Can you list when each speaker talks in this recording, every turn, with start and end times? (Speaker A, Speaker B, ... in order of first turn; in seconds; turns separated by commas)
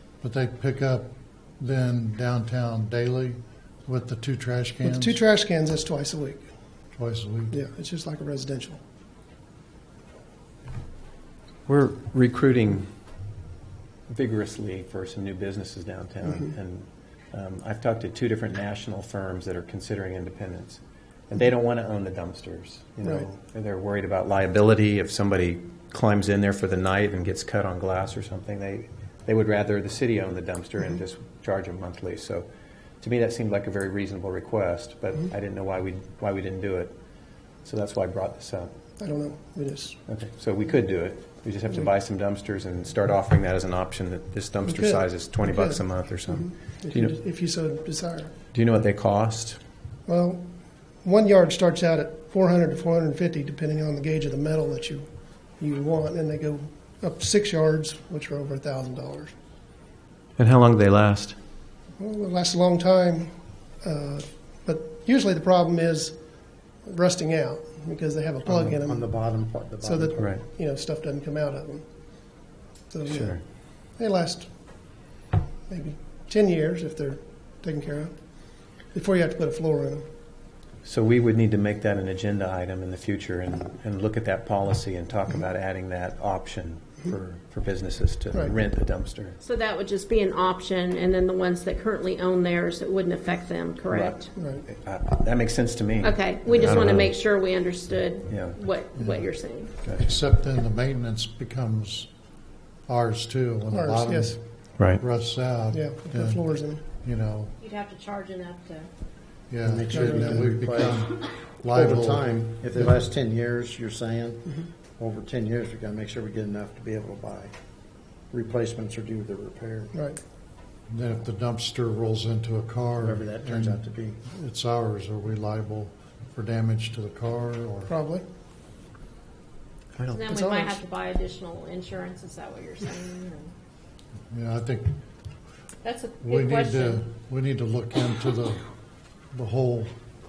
Speaker A: 0.2-5.2, Speaker B: 4.8-6.5, Speaker A: 6.9-7.6, Speaker B: 7.5-8.8, Speaker C: 11.7-12.9, Speaker C: 14.1-32.5, Speaker B: 16.2-16.5, Speaker B: 23.0-23.3, Speaker C: 33.0-37.0, Speaker C: 37.6-38.7, Speaker B: 39.0-40.0, Speaker C: 40.1-47.1, Speaker B: 44.6-48.3, Speaker C: 48.5-49.6, Speaker B: 50.1-50.5, Speaker B: 51.0-59.3, Speaker C: 60.4-61.4, Speaker B: 62.0-69.3, Speaker D: 68.5-70.3, Speaker B: 69.8-75.1, Speaker C: 70.2-70.4, Speaker C: 73.1-73.4, Speaker B: 75.7-80.0, Speaker C: 80.8-89.4, Speaker E: 89.4-94.3, Speaker C: 93.9-97.1, Speaker B: 94.3-94.6, Speaker E: 96.0-99.7, Speaker C: 98.3-98.6, Speaker A: 99.0-99.3, Speaker C: 99.8-100.1, Speaker A: 99.9-102.1, Speaker A: 102.9-107.5, Speaker B: 103.7-104.4, Speaker B: 105.7-106.8, Speaker E: 107.6-108.9, Speaker A: 109.5-112.9, Speaker D: 109.6-111.1, Speaker B: 109.9-110.5, Speaker D: 111.7-117.5, Speaker D: 118.3-119.9, Speaker B: 119.9-120.2, Speaker A: 120.9-127.9, Speaker D: 123.0-124.2, Speaker B: 127.9-128.2, Speaker C: 129.9-130.3, Speaker E: 130.1-133.5, Speaker B: 130.3-130.8, Speaker A: 134.3-134.9, Speaker E: 135.8-137.0, Speaker A: 136.2-138.6, Speaker A: 139.3-139.9